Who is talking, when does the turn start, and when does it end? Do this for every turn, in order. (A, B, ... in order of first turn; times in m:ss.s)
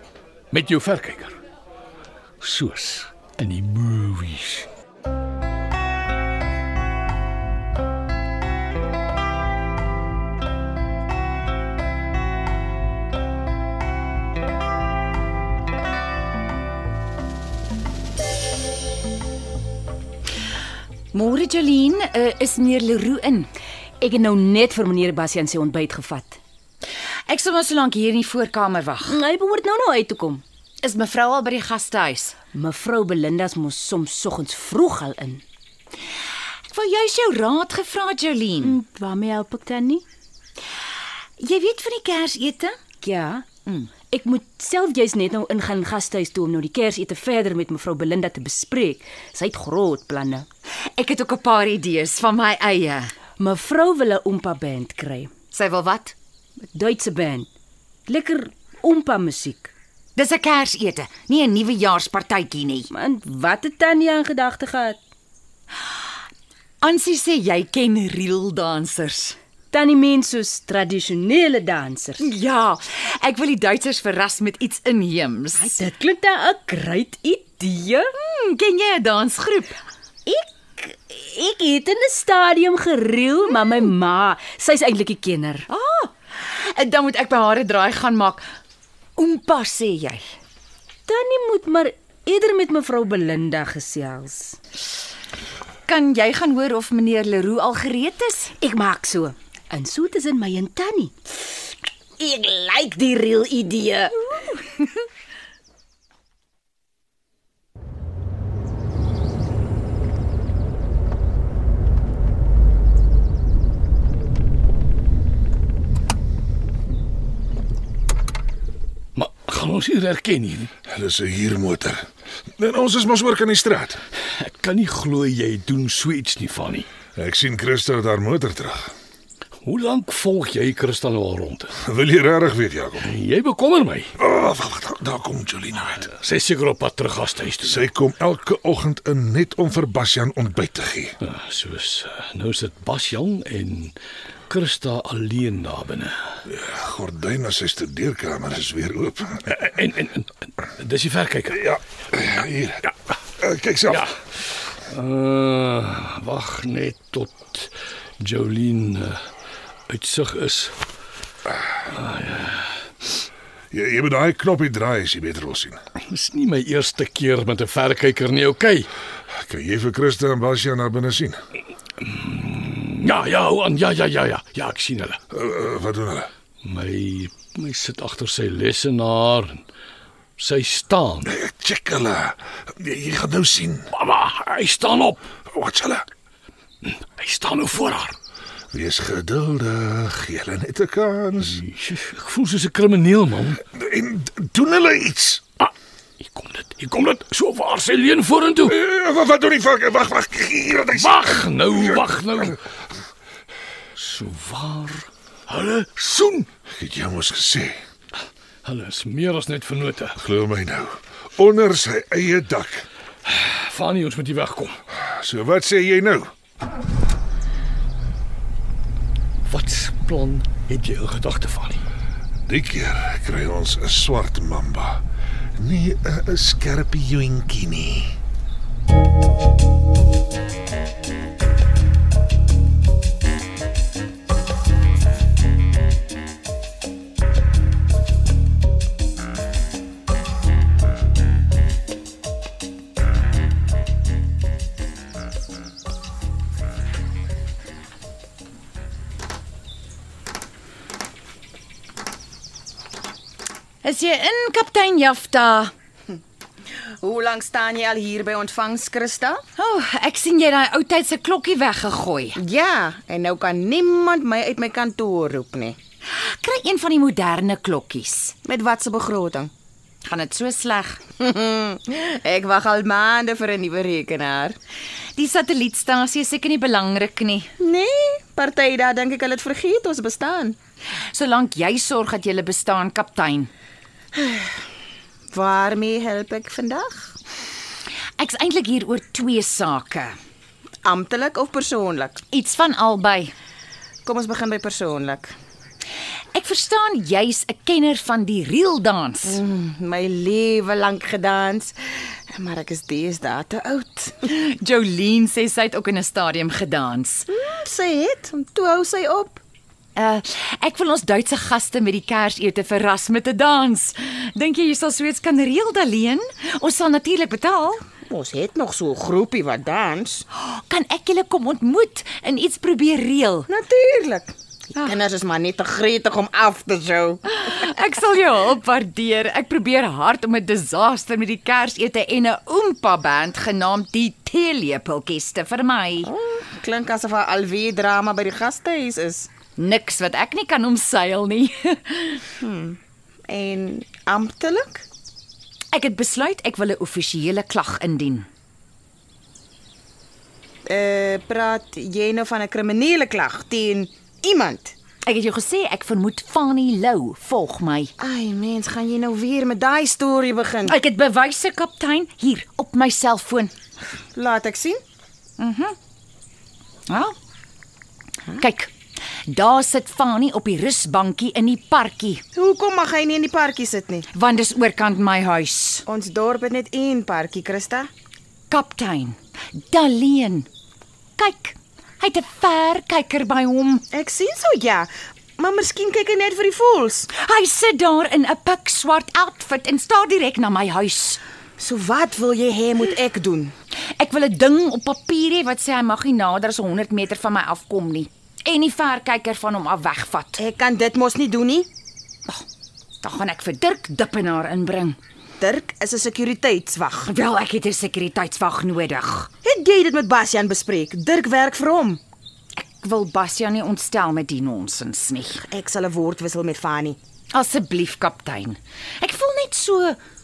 0:00.5-0:01.4 A
0:02.4-0:04.7 A
0:21.1-0:23.5 B
0:24.0-0:26.4 C
0:27.3-0:29.2 B
0:29.1-0:30.4 C
0:30.8-0:32.4 B
0:32.5-0:35.4 C
0:36.7-0:38.8 B
0:38.6-0:40.0 C
0:41.4-0:42.8 B
0:43.0-0:43.5 C
0:43.7-0:43.9 B
0:44.0-0:50.5 C
0:50.8-0:53.2 B
0:53.4-0:55.3 C
0:55.5-0:56.2 B
0:56.7-0:57.5 C
0:58.1-0:59.7 C
1:00.2-1:02.9 B
1:02.9-1:05.0 C
1:06.8-1:09.4 B
1:09.7-1:12.3 C
1:12.2-1:15.9 B
1:15.6-1:18.1 C
1:18.2-1:19.8 B
1:20.3-1:25.7 C
1:25.7-1:28.4 B
1:29.2-1:30.2 B
1:31.1-1:34.6 C
1:35.9-1:38.5 B
1:38.6-1:41.1 C
1:42.2-1:44.1 B
1:43.6-1:44.4 C
1:59.2-2:00.7 A
2:00.9-2:04.0 D
2:04.4-2:06.9 A
2:07.2-2:08.9 D
2:09.6-2:11.8 A
2:11.8-2:13.1 D
2:13.0-2:14.1 A
2:14.2-2:16.1 D
2:16.1-2:17.9 A
2:17.6-2:21.2 D
2:21.2-2:24.0 A
2:24.5-2:26.2 A
2:26.5-2:29.5 D
2:29.5-2:31.7 A
2:31.5-2:34.0 D
2:33.9-2:34.1 A
2:34.8-2:39.2 A
2:39.9-2:40.8 A
2:41.8-2:42.7 A
2:43.7-2:45.8 D
2:46.0-2:48.9 A
2:49.3-2:51.4 D
2:52.0-2:55.2 A
2:55.3-2:56.3 D
2:56.6-2:59.6 A
3:00.4-3:01.3 A
3:01.2-3:03.9 D
3:03.9-3:05.2 A
3:05.5-3:06.1 D
3:06.8-3:08.2 A
3:08.7-3:11.6 D
3:11.4-3:13.6 A
3:13.7-3:15.4 D
3:16.2-3:18.8 A
3:18.6-3:22.1 D
3:20.9-3:22.6 A
3:24.0-3:26.5 A
3:26.7-3:27.8 D
3:28.6-3:30.2 A
3:30.2-3:32.9 D
3:33.2-3:34.8 A
3:34.9-3:36.3 D
3:39.5-3:41.8 A
3:42.4-3:45.0 D
3:45.6-3:48.2 D
4:13.8-4:15.7 B
4:17.0-4:19.4 E
4:19.6-4:22.4 B
4:22.4-4:25.8 E
4:26.1-4:28.4 B
4:28.4-4:29.5 E
4:30.0-4:31.0 B
4:31.2-4:34.6 E
4:35.2-4:37.5 B
4:37.6-4:40.6 E
4:41.1-4:43.5 B
4:44.2-4:44.5 E
4:45.3-4:47.2 E
4:48.2-4:50.2 B
4:50.8-4:52.2 E
4:52.3-4:53.3 B
4:54.1-4:55.3 E
4:56.3-4:59.4 B
4:59.3-5:04.2 E
5:04.2-5:07.3 B
5:07.3-5:09.4 E
5:10.0-5:17.8 B
5:18.1-5:20.2 E
5:20.3-5:23.5 B
5:23.5-5:27.2 E
5:27.3-5:36.1 B
5:36.0-5:39.3 E
5:39.6-5:42.2 B
5:42.4-5:44.8 E
5:45.7-5:48.3 B
5:50.7-5:54.8 E
5:55.1-5:57.9 B
5:58.0-6:00.8 E
6:00.7-6:03.5 B
6:04.2-6:04.8 E
6:05.4-6:05.8 B
6:06.9-6:07.2 B
6:08.4-6:08.7 B
6:09.3-6:12.2 B
6:12.4-6:14.1 E
6:14.1-6:15.9 B
6:15.9-6:17.9 E
6:18.5-6:20.5 B
6:21.2-6:23.9 B
6:23.9-6:27.1 E
6:27.1-6:31.2 B
6:31.6-6:33.5 E
6:34.0-6:40.4 B
6:40.4-6:41.7 E
6:43.0-6:45.0 B
6:45.4-6:47.0 E
6:47.0-6:49.3 B
6:49.4-6:52.0 E
6:52.6-6:55.5 B
6:55.5-6:57.0 E
6:57.3-7:00.0 B